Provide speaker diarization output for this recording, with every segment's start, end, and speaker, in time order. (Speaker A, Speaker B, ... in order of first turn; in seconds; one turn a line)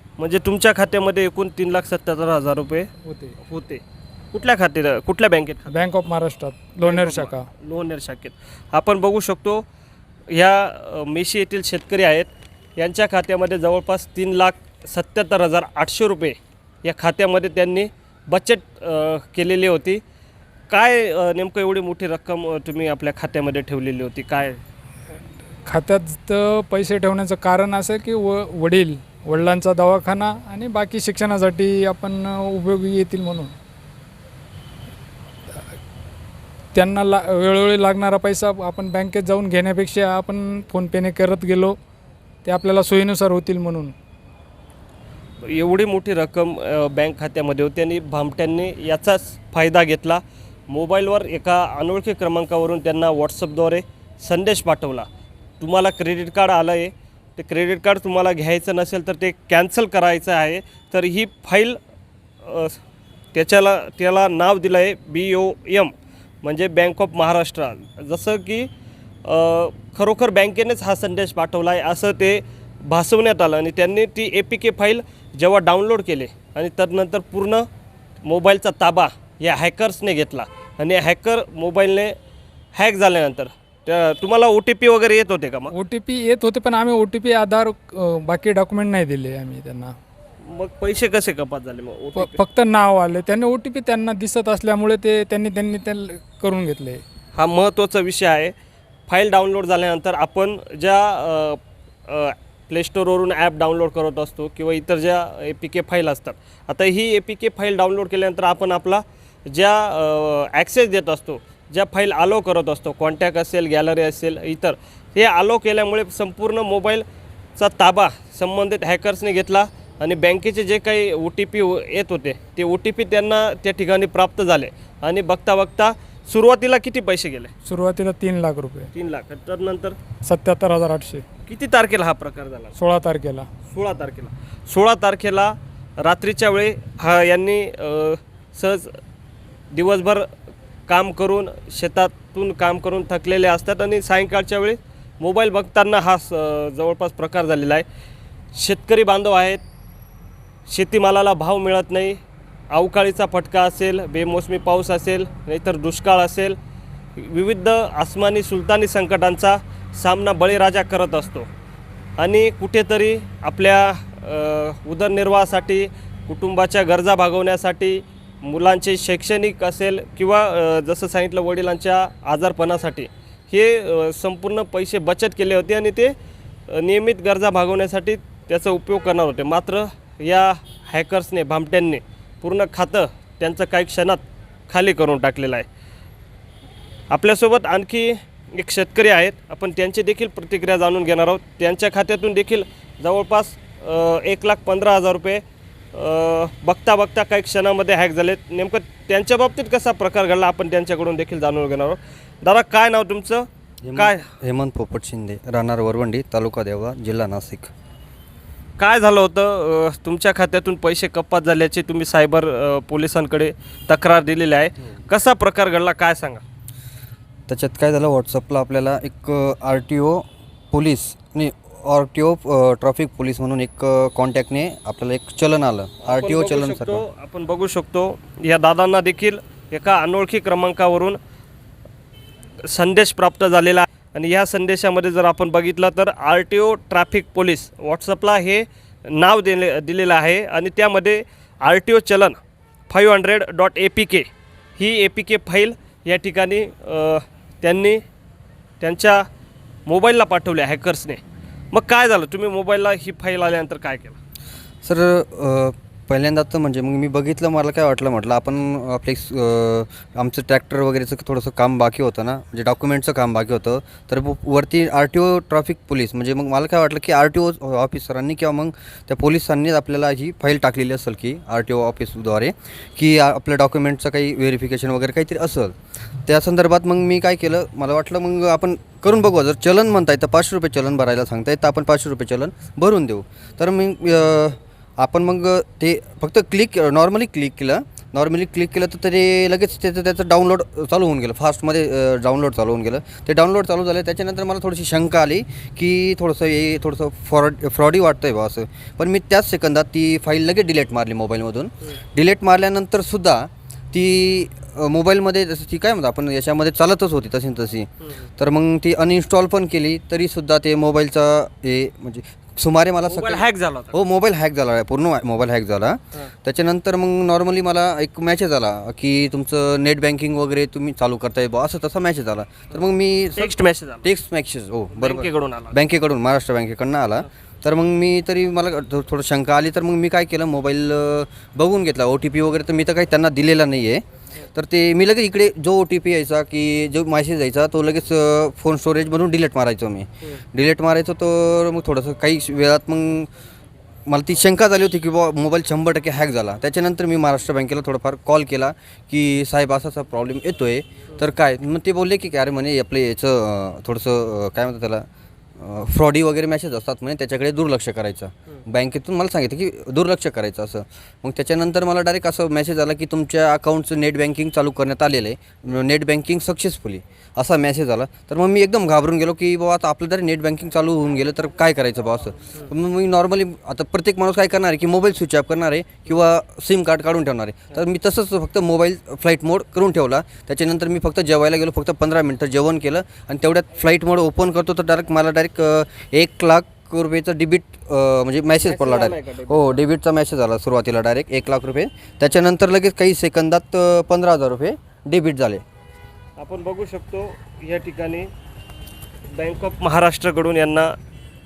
Speaker A: 0.2-2.9
Speaker B: 3.1-3.3
Speaker A: 3.4-5.9
Speaker B: 5.7-7.5
Speaker A: 6.8-9.6
Speaker A: 10.3-20.0
Speaker A: 20.7-24.6
Speaker B: 25.6-33.5
Speaker B: 36.7-41.8
Speaker B: 42.4-43.9
Speaker A: 45.4-55.1
Speaker A: 55.6-61.8
Speaker A: 62.4-62.8
Speaker A: 63.3-68.7
Speaker A: 69.2-77.6
Speaker A: 78.2-82.1
Speaker A: 82.8-85.7
Speaker B: 85.7-89.9
Speaker A: 90.5-92.4
Speaker B: 92.2-97.0
Speaker A: 97.3-98.5
Speaker A: 99.1-117.0
Speaker A: 117.6-127.5
Speaker B: 127.6-128.9
Speaker A: 128.9-129.9
Speaker B: 130.2-131.2
Speaker A: 131.4-132.7
Speaker B: 132.8-133.5
Speaker A: 133.7-138.9
Speaker A: 139.7-140.3
Speaker A: 140.9-147.8
Speaker A: 148.5-149.6
Speaker A: 150.7-152.2
Speaker A: 152.7-156.6
Speaker A: 157.2-161.5
Speaker A: 162.2-176.1
Speaker A: 176.7-185.7
Speaker A: 187.1-195.4
Speaker A: 195.9-204.3
Speaker C: 203.8-207.7
Speaker A: 208.8-216.4
Speaker C: 217.5-227.0
Speaker A: 226.0-231.2
Speaker A: 232.7-242.4
Speaker A: 242.9-248.0
Speaker A: 248.8-249.2
Speaker A: 249.9-251.2
Speaker A: 251.7-254.2
Speaker C: 254.8-343.3
Speaker A: 308.0-308.3
Speaker A: 313.1-314.0
Speaker A: 323.4-324.1
Speaker A: 324.9-325.8
Speaker C: 344.1-355.1
Speaker C: 355.6-395.6
Speaker A: 388.6-389.8
Speaker A: 396.4-398.3
Speaker A: 399.3-400.9